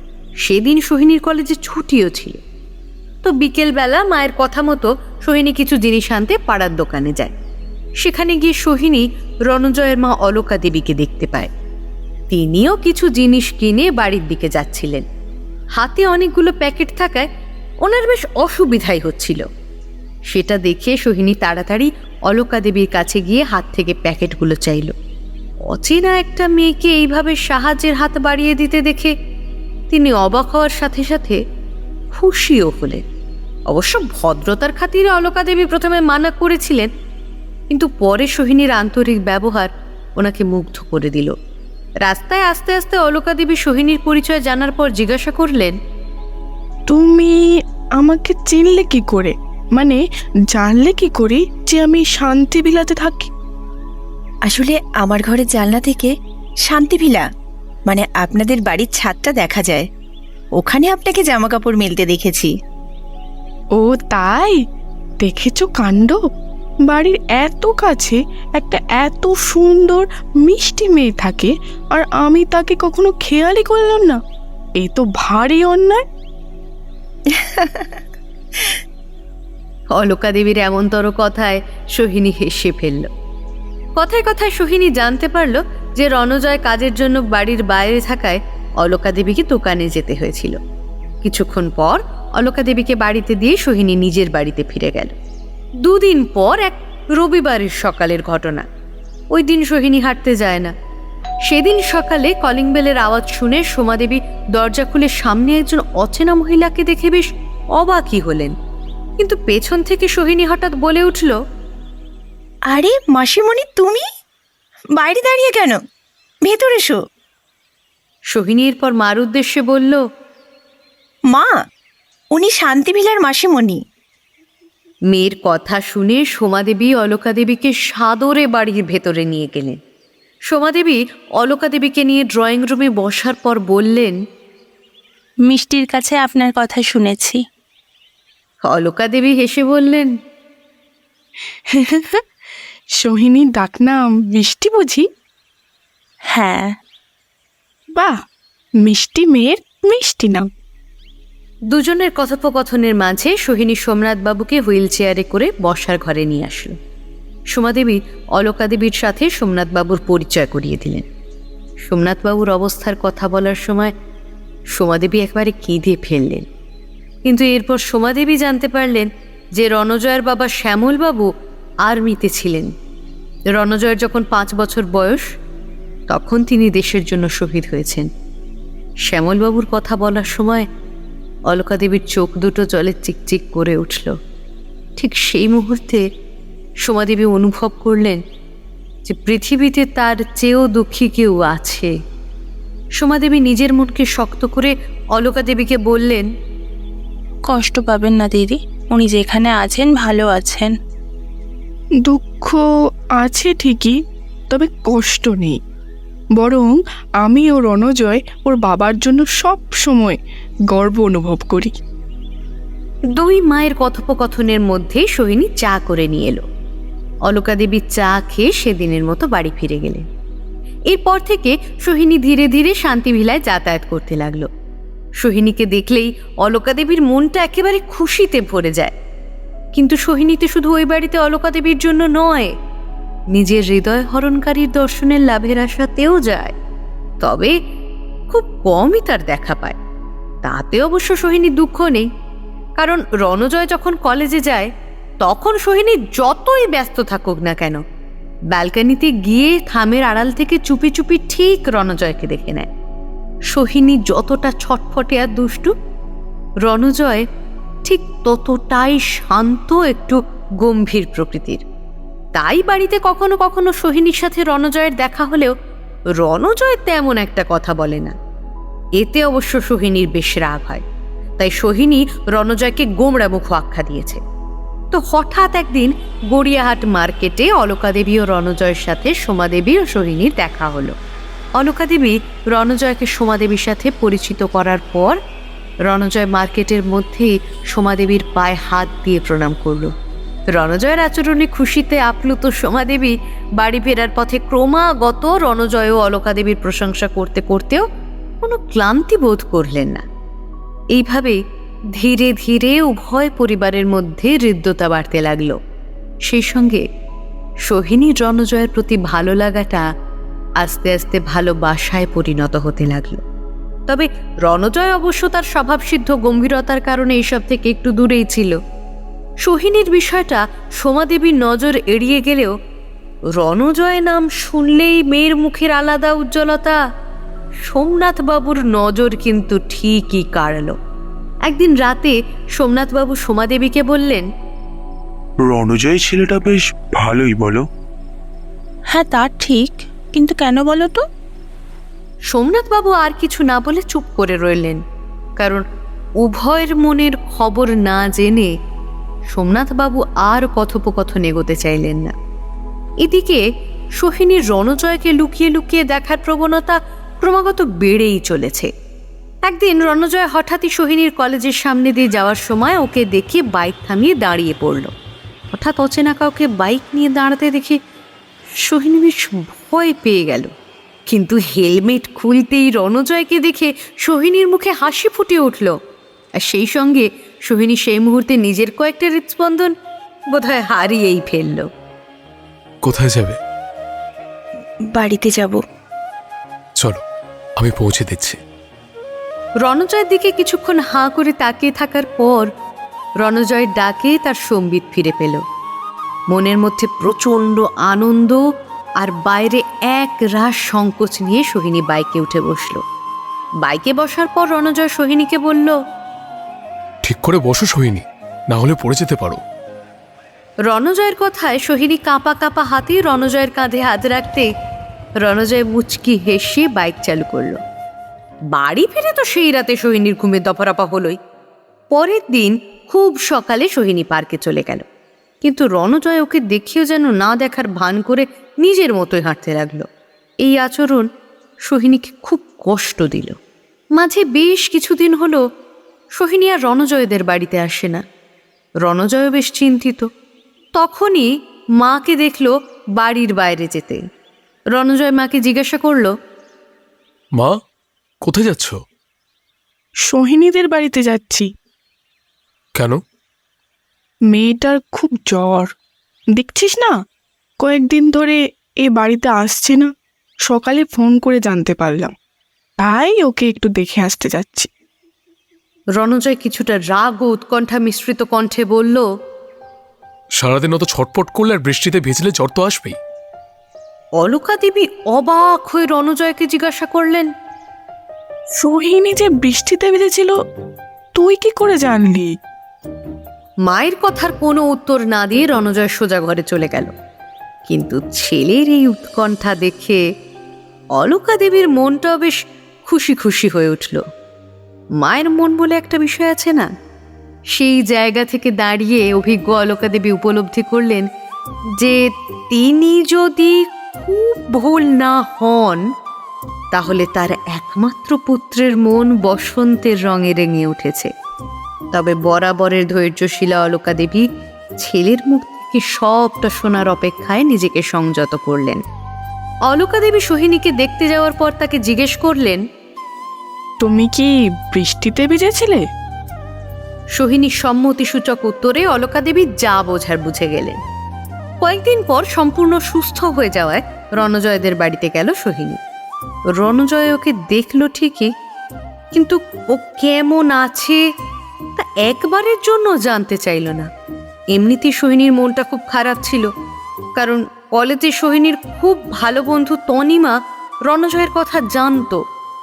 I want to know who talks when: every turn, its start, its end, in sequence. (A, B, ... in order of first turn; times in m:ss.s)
0:00.4-0:02.4 A
0:03.2-0:07.3 A
0:08.0-0:11.5 A
0:12.3-0:15.0 A
0:15.8-0:17.3 A
0:17.8-0:19.4 A
0:20.3-0:24.9 A
0:25.7-0:29.1 A
0:29.9-0:31.4 A
0:32.1-0:33.0 A
0:33.7-0:36.9 A
0:37.7-0:41.3 A
0:42.0-0:45.8 A
0:46.9-0:47.4 B
0:48.0-0:50.0 B
0:50.5-0:53.3 B
0:54.4-0:56.1 C
0:56.6-0:57.2 C
0:57.9-0:59.8 C
1:00.5-1:02.5 C
1:03.7-1:04.6 B
1:05.2-1:06.2 B
1:06.8-1:14.2 B
1:14.8-1:16.0 B
1:17.3-1:18.0 C
1:19.9-1:23.1 A
1:24.0-1:30.6 A
1:31.2-1:35.1 A
1:35.8-1:38.6 A
1:39.3-1:40.7 A
1:41.4-1:48.5 A
1:49.2-1:51.4 A
1:52.7-1:54.0 C
1:55.0-1:55.8 C
1:56.4-1:57.0 C
1:58.3-2:00.0 A
2:02.3-2:03.8 C
2:05.1-2:09.8 A
2:10.5-2:14.2 A
2:15.4-2:17.4 D
2:18.6-2:20.1 A
2:21.7-2:22.2 B
2:23.0-2:25.0 B
2:26.3-2:26.7 D
2:28.8-2:30.5 B
2:31.7-2:36.8 A
2:37.5-2:41.0 A
2:41.8-2:43.9 A
2:44.7-2:46.5 A
2:47.2-2:51.3 A
2:51.8-2:52.7 A
2:53.5-2:55.2 A
2:56.1-2:58.1 A
2:59.1-3:00.7 A
3:01.5-3:04.1 A
3:05.0-3:06.0 A
3:06.8-3:08.2 A
3:09.1-3:11.9 A
3:13.0-3:16.3 A
3:17.5-3:20.7 D
3:22.0-3:22.6 B
3:23.2-3:24.0 B
3:24.5-3:25.6 B
3:26.4-3:30.2 B
3:30.7-3:31.8 B
3:33.1-3:36.4 A
3:37.3-3:40.0 A
3:40.9-3:44.5 A
3:45.2-3:48.9 A
3:49.7-3:52.5 A
3:53.3-3:56.5 A
3:57.2-3:57.5 A
3:58.3-3:59.8 A
4:00.4-4:02.1 A
4:02.8-4:04.7 A
4:05.2-4:07.8 A
4:08.5-4:12.7 A
4:13.5-4:15.7 A
4:16.6-4:17.2 A
4:17.8-4:21.6 A
4:22.3-4:25.5 A
4:26.2-4:28.2 A
4:29.0-4:30.8 A
4:31.4-4:34.2 A
4:34.9-4:41.0 A
4:41.6-4:45.2 A
4:45.8-4:49.9 A
4:50.5-4:57.8 A
4:58.4-5:00.0 A
5:00.9-5:01.4 A
5:02.0-5:05.6 A
5:06.3-5:06.8 A
5:07.7-5:09.8 A
5:10.6-5:13.2 A
5:13.9-5:18.6 A
5:19.4-5:22.5 A
5:23.4-5:26.8 A
5:27.6-5:30.8 A
5:31.5-5:34.3 A
5:35.4-5:37.6 E
5:38.9-5:41.0 D
5:42.3-5:44.8 A
5:45.4-5:45.6 A
5:46.2-5:48.5 A
5:49.3-5:52.1 A
5:53.0-5:53.4 A
5:54.0-5:58.7 A
5:59.4-6:04.9 A
6:05.5-6:07.8 A
6:08.6-6:10.5 A
6:11.1-6:15.8 A
6:16.4-6:19.7 A
6:20.3-6:21.7 A
6:22.8-6:23.4 F
6:24.9-6:25.6 C
6:27.6-6:28.4 F
6:29.6-6:32.5 A
6:33.2-6:35.4 A
6:36.3-6:38.4 A
6:39.0-6:42.8 A
6:43.6-6:45.8 A
6:47.0-6:49.4 F
6:50.7-6:54.5 A
6:55.2-6:57.6 A
6:58.5-7:01.2 A
7:01.9-7:04.8 A
7:05.4-7:09.9 A
7:10.4-7:11.1 A
7:11.6-7:13.4 A
7:14.0-7:15.4 A
7:16.1-7:18.0 A
7:18.8-7:20.1 A
7:20.7-7:24.0 A
7:24.7-7:26.1 A
7:28.2-7:28.8 F
7:30.0-7:31.5 B
7:34.3-7:35.7 B
7:36.4-7:36.9 B
7:37.6-7:39.9 B
7:40.5-7:42.1 B
7:42.8-7:44.7 B
7:46.0-7:49.1 A
7:50.4-7:53.0 F
7:54.2-7:57.3 A
7:58.6-8:00.3 B
8:01.1-8:02.3 B
8:03.6-8:06.9 A
8:07.7-8:10.0 A
8:11.0-8:14.0 A
8:15.0-8:16.7 A
8:17.5-8:21.0 A
8:21.8-8:25.8 A
8:26.7-8:31.1 A
8:31.9-8:34.2 A
8:34.8-8:38.8 A
8:39.7-8:42.6 A
8:43.8-8:45.8 B
8:47.2-8:50.8 A
8:51.6-8:55.8 A
8:56.6-8:58.3 A
8:59.1-9:01.0 A
9:01.8-9:03.9 A
9:04.5-9:06.5 A
9:07.2-9:12.2 A